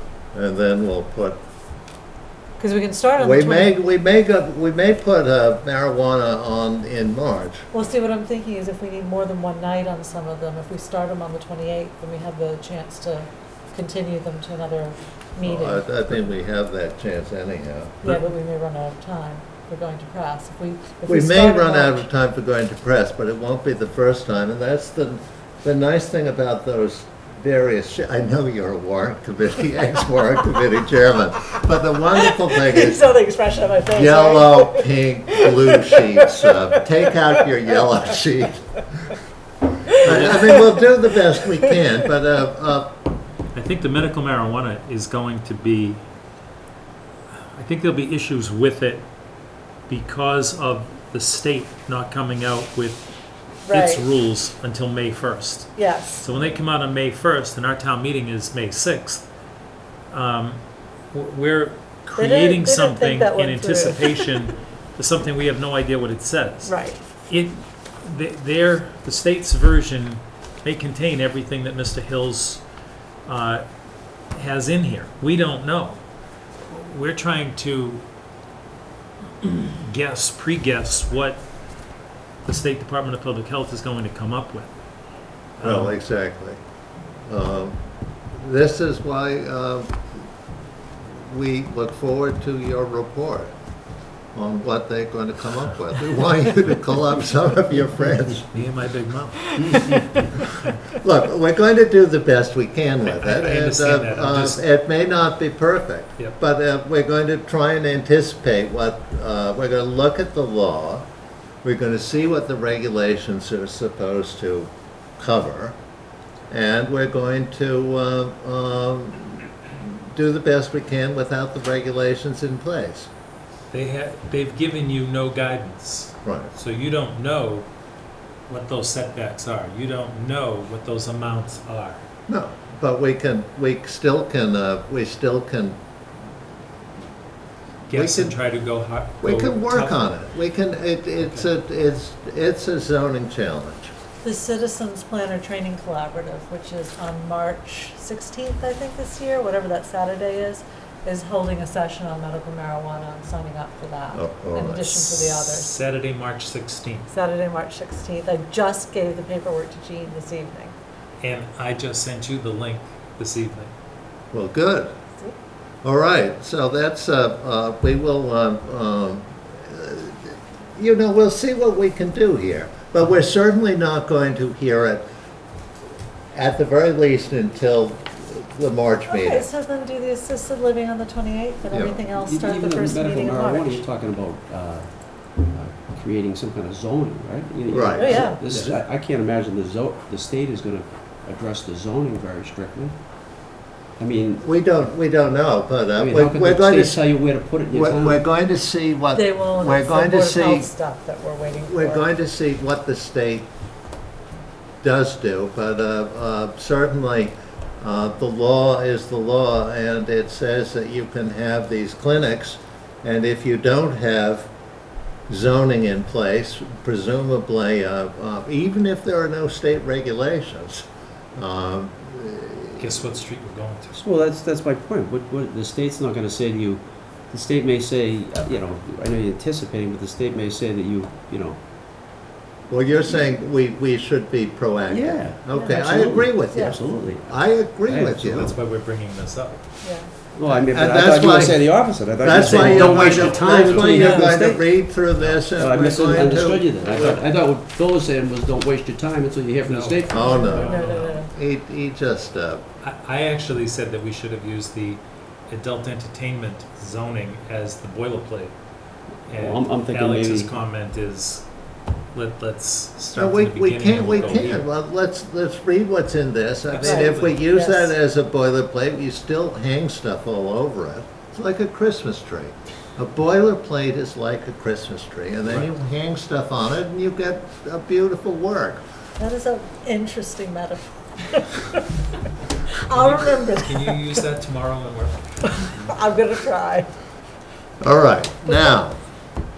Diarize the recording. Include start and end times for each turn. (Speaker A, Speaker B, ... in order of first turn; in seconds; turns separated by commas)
Speaker A: 0.3-1.4, Speaker B: 2.6-3.7, Speaker A: 3.2-7.7, Speaker B: 7.7-15.9, Speaker A: 15.4-18.2, Speaker B: 18.0-22.0, Speaker A: 21.1-33.0, Speaker B: 32.2-37.4, Speaker A: 33.9-38.7, Speaker A: 40.0-43.0, Speaker C: 40.0-40.3, Speaker B: 40.1-40.6, Speaker C: 43.5-46.0, Speaker C: 47.5-49.0, Speaker C: 49.9-53.1, Speaker B: 53.6-54.1, Speaker C: 53.7-59.2, Speaker B: 55.8-56.4, Speaker C: 60.1-60.6, Speaker C: 61.1-72.6, Speaker B: 62.1-64.4, Speaker B: 66.6-67.0, Speaker C: 73.2-73.6, Speaker C: 74.3-76.0, Speaker C: 76.7-78.0, Speaker C: 79.4-81.4, Speaker C: 82.4-84.7, Speaker C: 85.6-85.9, Speaker A: 85.6-86.6, Speaker A: 87.3-87.8, Speaker A: 88.3-90.0, Speaker A: 91.0-93.5, Speaker A: 94.3-98.5, Speaker C: 98.4-100.1, Speaker B: 99.6-100.0, Speaker A: 100.8-111.0, Speaker C: 103.0-104.6, Speaker A: 111.6-115.8, Speaker A: 116.5-123.1, Speaker C: 123.7-127.7, Speaker A: 126.2-126.5, Speaker C: 128.5-132.0, Speaker A: 132.3-135.8, Speaker C: 137.9-140.2, Speaker A: 137.9-138.4, Speaker A: 139.2-143.9, Speaker C: 141.2-141.5, Speaker B: 144.2-155.7, Speaker A: 154.1-155.0, Speaker C: 154.9-157.1, Speaker B: 157.1-160.8, Speaker C: 161.2-163.7, Speaker A: 164.3-164.9, Speaker A: 165.8-175.1, Speaker A: 176.3-179.5, Speaker B: 179.1-183.8, Speaker A: 181.7-182.0, Speaker D: 182.1-192.9, Speaker A: 187.7-188.8, Speaker B: 187.9-188.4, Speaker D: 194.0-194.5, Speaker A: 194.4-197.0, Speaker D: 195.9-198.2, Speaker A: 197.7-200.7, Speaker B: 199.1-202.1, Speaker A: 201.7-203.5, Speaker A: 204.8-214.5, Speaker A: 215.3-222.9, Speaker C: 222.8-224.0, Speaker D: 223.9-231.6, Speaker A: 232.7-238.5, Speaker D: 234.9-238.4, Speaker B: 235.5-235.8, Speaker C: 238.2-239.6, Speaker B: 239.8-240.1, Speaker D: 240.3-244.7, Speaker A: 240.7-246.7, Speaker C: 242.4-244.2, Speaker B: 243.9-244.3, Speaker C: 245.2-245.4, Speaker D: 245.6-250.3, Speaker C: 246.8-247.2, Speaker C: 249.6-251.2, Speaker A: 250.1-252.6, Speaker B: 250.2-251.3, Speaker C: 252.8-258.5, Speaker D: 259.3-260.5, Speaker C: 259.3-261.5, Speaker C: 262.1-264.6, Speaker A: 263.1-278.8, Speaker D: 264.1-264.6, Speaker C: 266.7-267.2, Speaker B: 266.8-267.9, Speaker B: 279.2-281.8, Speaker B: 282.7-284.2, Speaker C: 282.9-285.9, Speaker B: 285.5-286.9, Speaker A: 287.8-289.0, Speaker B: 288.5-288.7